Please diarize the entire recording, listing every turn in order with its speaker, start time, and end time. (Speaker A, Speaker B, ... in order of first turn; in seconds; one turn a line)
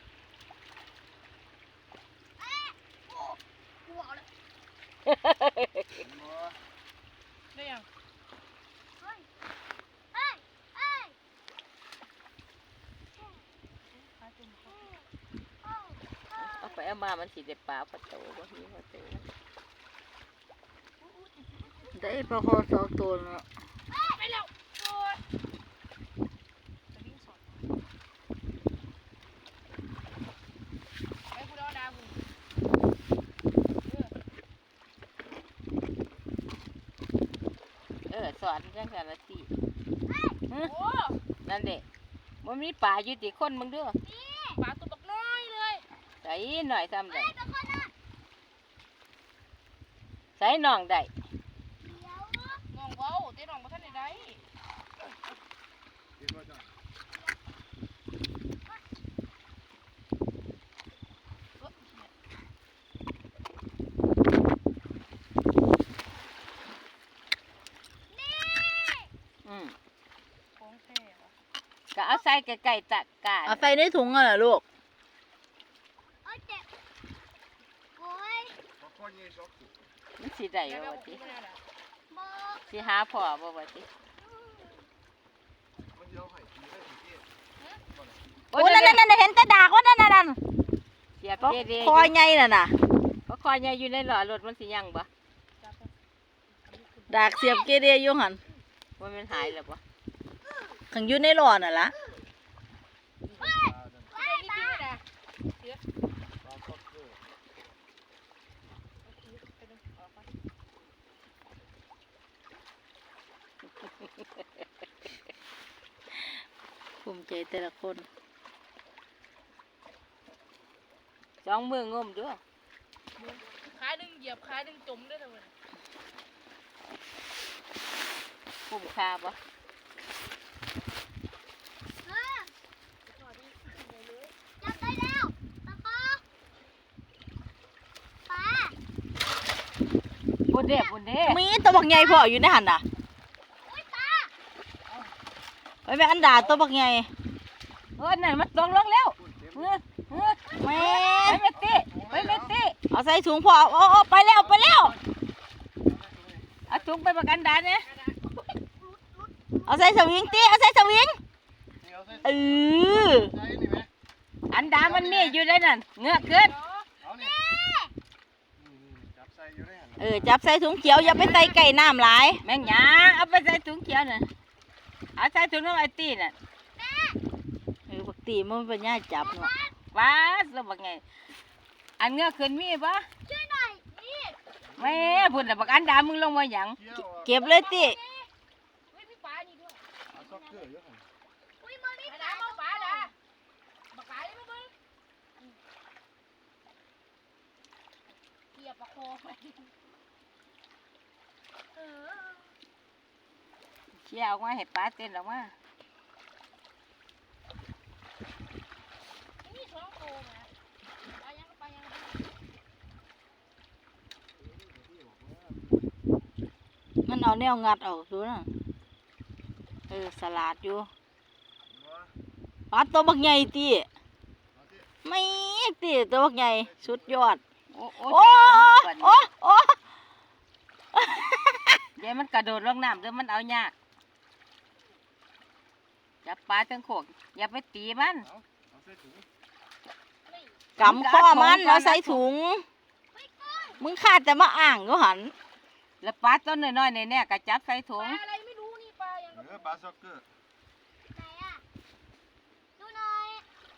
Speaker A: 2.4-4.2
Speaker B: 5.0-6.0
Speaker C: 6.0-6.6
Speaker D: 7.5-7.8
Speaker A: 9.0-9.3
Speaker A: 10.1-11.2
Speaker A: 13.2-13.4
Speaker D: 13.9-14.9
Speaker A: 14.7-15.1
Speaker A: 15.6-16.9
Speaker B: 16.4-19.2
Speaker D: 21.0-22.3
Speaker E: 21.9-23.4
Speaker D: 23.9-25.2
Speaker D: 26.9-27.6
Speaker D: 31.3-32.2
Speaker D: 33.9-34.1
Speaker B: 38.1-39.5
Speaker A: 40.1-40.4
Speaker D: 40.6-41.2
Speaker B: 41.4-41.8
Speaker B: 42.4-44.0
Speaker A: 44.0-44.6
Speaker D: 44.6-45.8
Speaker B: 46.2-47.3
Speaker A: 47.1-47.9
Speaker B: 50.4-51.1
Speaker A: 51.8-52.6
Speaker D: 52.7-54.4
Speaker A: 53.8-54.2
Speaker C: 56.2-56.7
Speaker D: 61.6-62.1
Speaker A: 68.1-69.1
Speaker B: 69.4-69.7
Speaker D: 70.6-71.3
Speaker B: 71.9-73.7
Speaker E: 73.5-74.6
Speaker A: 76.2-76.7
Speaker A: 78.0-78.6
Speaker C: 78.8-79.8
Speaker B: 80.2-81.2
Speaker D: 80.6-81.6
Speaker A: 82.1-83.0
Speaker B: 82.7-83.8
Speaker A: 84.2-84.8
Speaker C: 85.9-87.2
Speaker B: 88.5-89.0
Speaker E: 88.5-90.4
Speaker B: 91.2-92.1
Speaker D: 91.4-91.7
Speaker E: 91.4-92.7
Speaker B: 93.3-95.1
Speaker D: 95.6-95.9
Speaker D: 96.7-97.2
Speaker E: 97.1-98.4
Speaker A: 97.3-97.7
Speaker B: 99.0-99.8
Speaker E: 100.9-101.9
Speaker C: 103.2-104.1
Speaker A: 103.4-104.8
Speaker D: 104.1-105.0
Speaker C: 106.4-107.2
Speaker D: 109.0-110.3
Speaker E: 117.0-118.0
Speaker B: 121.4-122.4
Speaker D: 123.2-125.5
Speaker B: 128.7-129.3
Speaker A: 132.0-132.5
Speaker D: 133.1-135.0
Speaker A: 134.6-136.2
Speaker A: 138.3-138.8
Speaker B: 140.5-141.4
Speaker A: 140.5-140.9
Speaker E: 141.2-142.8
Speaker A: 141.6-142.3
Speaker A: 143.7-144.3
Speaker C: 144.9-145.1
Speaker E: 145.8-147.1
Speaker B: 148.0-152.8
Speaker C: 149.2-149.8
Speaker A: 150.2-151.4
Speaker E: 150.6-151.4
Speaker C: 151.5-152.5
Speaker E: 152.9-154.9
Speaker C: 155.8-156.5
Speaker B: 156.7-157.8
Speaker D: 157.8-159.7
Speaker E: 159.7-161.2
Speaker C: 161.8-163.9
Speaker E: 162.2-163.3
Speaker B: 164.5-166.5
Speaker C: 164.7-165.3
Speaker D: 166.1-166.9
Speaker C: 167.0-167.3
Speaker A: 167.1-167.9
Speaker C: 168.6-170.3
Speaker E: 170.0-172.4
Speaker D: 170.8-171.6
Speaker A: 171.1-171.4
Speaker B: 172.4-174.3
Speaker B: 175.2-176.3
Speaker A: 176.7-177.2
Speaker E: 177.9-179.5
Speaker A: 179.2-179.7
Speaker B: 179.9-181.0
Speaker B: 182.0-183.1
Speaker A: 183.2-183.8
Speaker D: 183.9-184.4
Speaker C: 184.7-185.9
Speaker B: 184.8-186.8
Speaker C: 186.8-187.3
Speaker E: 187.2-188.0
Speaker D: 187.3-188.3
Speaker A: 187.4-187.9
Speaker D: 188.9-189.8
Speaker C: 190.1-191.0
Speaker A: 190.1-190.7
Speaker A: 191.6-193.1
Speaker D: 192.0-193.1
Speaker D: 193.9-194.7
Speaker D: 198.5-199.7
Speaker D: 201.7-202.5
Speaker B: 204.0-205.5
Speaker D: 209.4-210.5
Speaker D: 211.2-212.3
Speaker C: 214.4-215.9
Speaker E: 217.1-218.5
Speaker E: 219.9-220.9
Speaker C: 221.7-222.1
Speaker E: 222.7-223.9
Speaker C: 224.5-224.9
Speaker E: 225.0-227.4
Speaker C: 226.7-227.4
Speaker B: 227.7-229.2
Speaker E: 228.1-229.8
Speaker E: 230.9-231.8
Speaker B: 232.0-233.7
Speaker B: 236.2-238.2
Speaker C: 238.2-239.2
Speaker E: 240.8-242.6
Speaker B: 240.8-242.2
Speaker A: 243.1-243.8
Speaker E: 243.8-245.3
Speaker B: 246.0-248.2
Speaker D: 248.0-249.8
Speaker C: 249.3-250.3
Speaker A: 251.1-251.6
Speaker A: 252.8-253.4